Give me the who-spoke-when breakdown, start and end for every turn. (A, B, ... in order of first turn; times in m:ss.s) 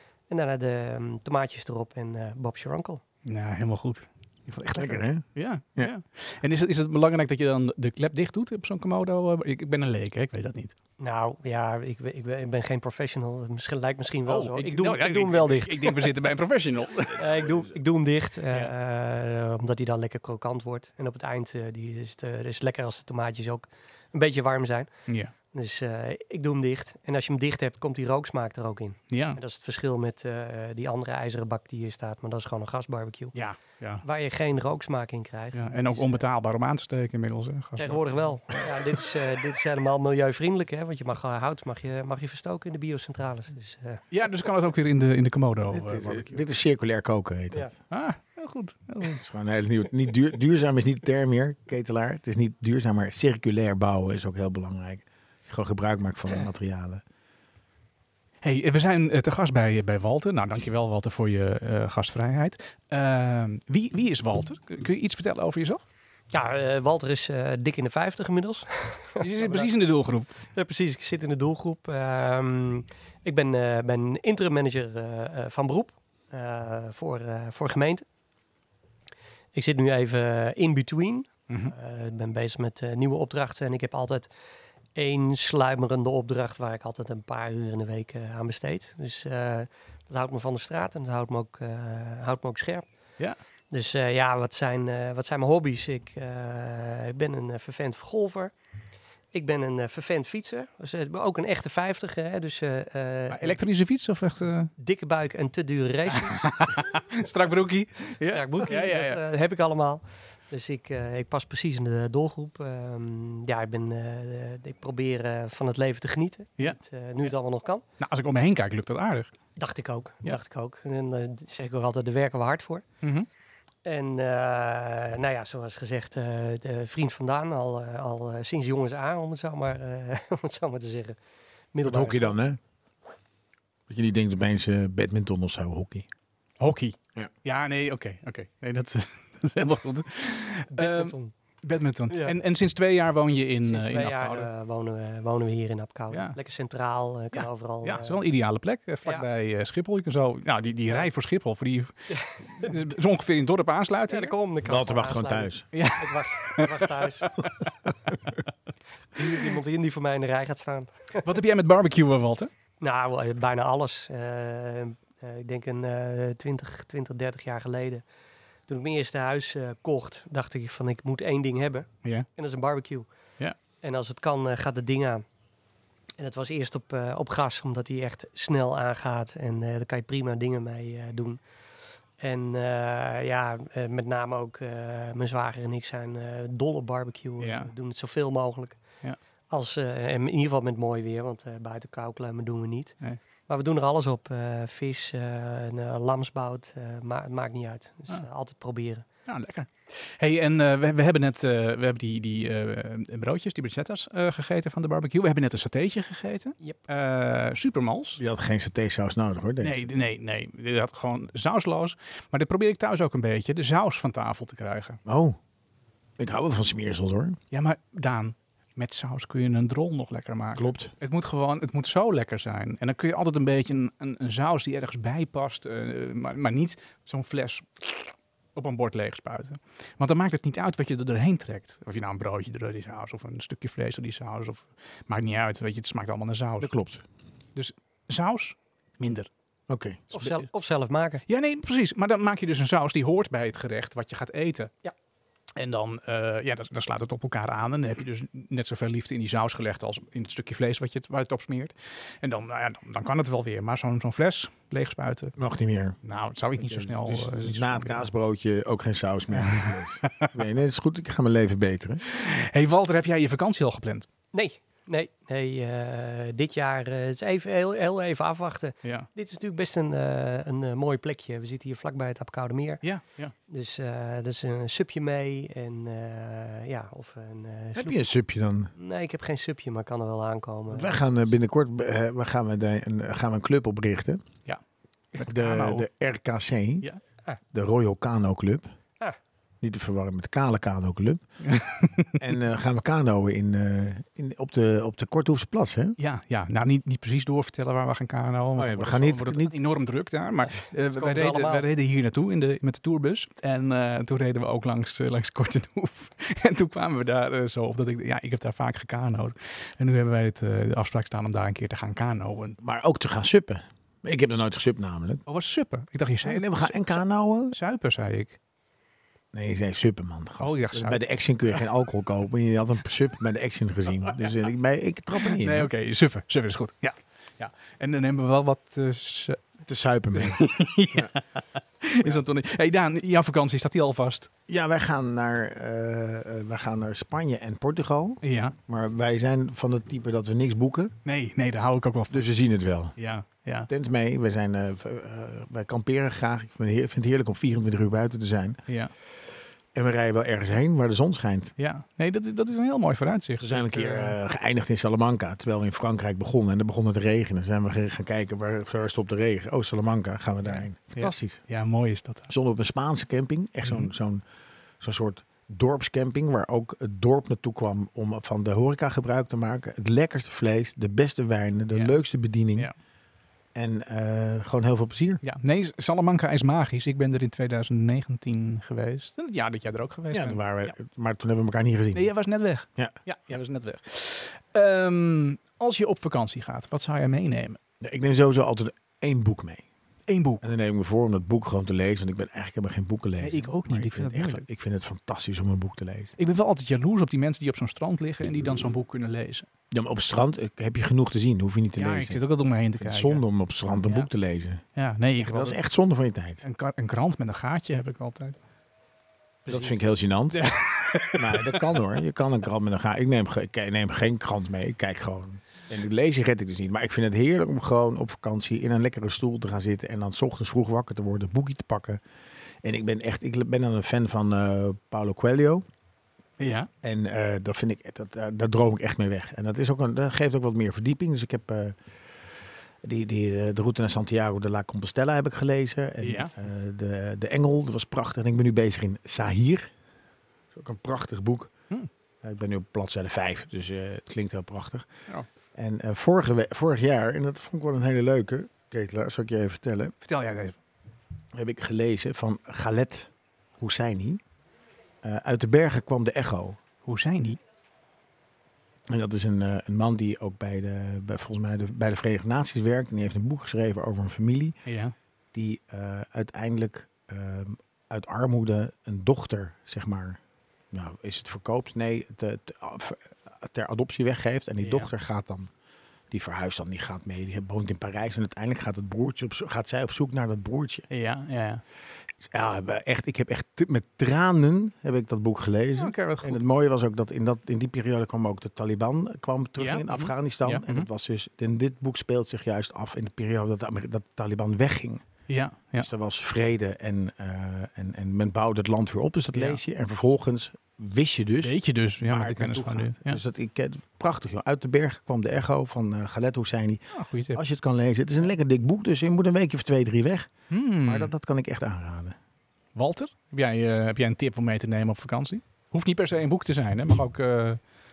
0:00.3-0:03.0 A
0:03.2-0:10.8 B
0:04.8-0:05.9 C
0:11.0-0:16.1 A
0:14.3-0:17.4 B
0:17.1-0:24.9 A
0:25.5-0:33.4 A
0:29.1-0:29.4 B
0:33.3-0:34.0 B
0:34.0-0:36.2 A
0:35.6-0:38.1 B
0:37.8-0:44.0 A
0:44.1-0:46.4 B
0:45.7-0:47.7 C
0:47.9-0:49.2 B
0:49.0-0:57.0 C
0:58.4-1:05.8 B
1:06.3-1:09.7 A
1:09.2-1:10.3 B
1:10.5-1:18.0 A
1:19.5-1:24.3 A
1:25.0-1:32.9 A
1:33.7-1:38.5 A
1:39.3-1:43.6 A
1:43.3-1:44.7 B
1:44.8-1:46.5 A
1:46.1-1:49.2 B
1:48.2-1:57.8 A
1:58.0-1:59.3 B
1:59.6-2:02.8 A
2:03.0-2:03.3 B
2:03.8-2:11.2 A
2:11.7-2:12.4 A
2:11.8-2:12.6 C
2:13.9-2:16.1 C
2:16.6-2:24.5 B
2:20.7-2:21.3 A
2:22.1-2:22.4 A
2:23.6-2:28.2 A
2:26.1-2:26.4 B
2:27.3-2:34.3 B
2:32.1-2:32.8 A
2:34.1-2:37.4 A
2:34.6-2:35.7 C
2:35.7-2:37.5 B
2:39.2-2:41.2 A
2:41.2-2:42.5 B
2:42.8-2:48.0 A
2:48.7-2:53.1 A
2:53.8-2:55.2 A
2:56.2-3:01.4 A
3:02.2-3:08.8 A
3:07.4-3:07.7 B
3:09.5-3:13.0 A
3:13.5-3:19.1 A
3:19.3-3:28.2 B
3:28.2-3:29.9 C
3:29.6-3:35.0 B
3:35.1-3:35.4 C
3:36.2-3:37.4 C
3:37.5-3:56.7 B
3:40.6-3:40.9 C
3:56.6-3:57.0 C
3:57.6-3:59.3 B
3:59.7-4:00.3 C
4:00.1-4:01.2 A
4:01.3-4:04.7 B
4:05.6-4:15.4 B
4:15.4-4:16.0 C
4:16.0-4:18.1 B
4:16.6-4:22.0 C
4:19.4-4:20.3 B
4:22.0-4:24.1 B
4:24.3-4:32.8 A
4:32.8-4:33.3 B
4:33.5-4:38.0 A
4:37.8-4:38.7 C
4:38.8-4:41.0 A
4:40.7-4:44.2 C
4:45.1-4:45.9 B
4:45.2-4:46.9 C
4:47.5-4:48.7 C
4:49.6-4:51.2 C
4:51.4-4:52.2 B
4:52.2-4:56.0 C
4:56.0-5:12.6 B
4:58.6-4:59.6 C
5:00.6-5:01.7 A
5:12.6-5:15.2 C
5:15.3-5:18.4 B
5:16.2-5:17.6 C
5:19.3-5:25.7 C
5:20.4-5:21.0 B
5:25.2-5:29.4 B
5:29.7-5:31.1 C
5:30.2-5:34.3 B
5:34.5-5:40.9 C
5:38.2-5:38.6 B
5:41.0-5:42.3 B
5:42.1-5:43.0 C
5:43.0-5:43.7 B
5:43.7-5:48.6 C
5:49.8-5:51.5 C
5:51.6-5:54.2 B
5:53.4-6:01.4 C
6:00.4-6:02.3 B
6:02.3-6:04.2 C
6:03.6-6:03.9 B
6:04.8-6:12.7 C
6:11.7-6:12.0 B
6:13.6-6:15.2 C
6:15.2-6:20.7 B
6:20.1-6:22.1 C
6:21.9-6:27.6 B
6:27.8-6:29.6 C
6:30.1-6:30.4 B
6:30.4-6:36.2 C
6:33.2-6:34.4 B
6:36.2-6:39.5 B
6:39.7-6:42.2 C
6:41.8-6:43.2 B
6:42.8-6:44.6 C
6:43.8-6:44.1 B
6:44.8-6:45.6 B
6:45.2-6:46.4 C
6:46.4-6:48.4 B
6:49.5-6:50.4 C
6:50.3-6:51.8 B
6:51.1-7:02.0 C
7:02.6-7:05.6 C
7:06.4-7:06.7 B
7:06.8-7:11.8 C
7:12.8-7:19.7 C
7:16.0-7:16.3 B
7:20.5-7:21.5 C
7:22.2-7:24.9 C
7:25.6-7:29.9 C
7:30.0-7:30.6 B
7:31.3-7:34.2 C
7:35.0-7:36.6 C
7:36.9-7:37.4 B
7:38.9-7:44.6 C
7:44.7-7:44.9 B
7:45.3-7:50.2 C
7:50.7-7:55.5 C
7:54.6-7:54.9 B
7:56.1-8:00.9 C
8:00.9-8:01.6 B
8:02.2-8:15.0 C
8:05.8-8:06.4 B
8:09.6-8:10.9 B
8:15.3-8:15.9 B
8:15.8-8:26.8 C
8:19.3-8:19.6 B
8:21.4-8:23.2 B
8:27.0-8:27.4 B
8:27.4-8:30.3 C
8:30.5-8:31.1 B
8:30.8-8:32.2 C
8:32.8-8:37.6 B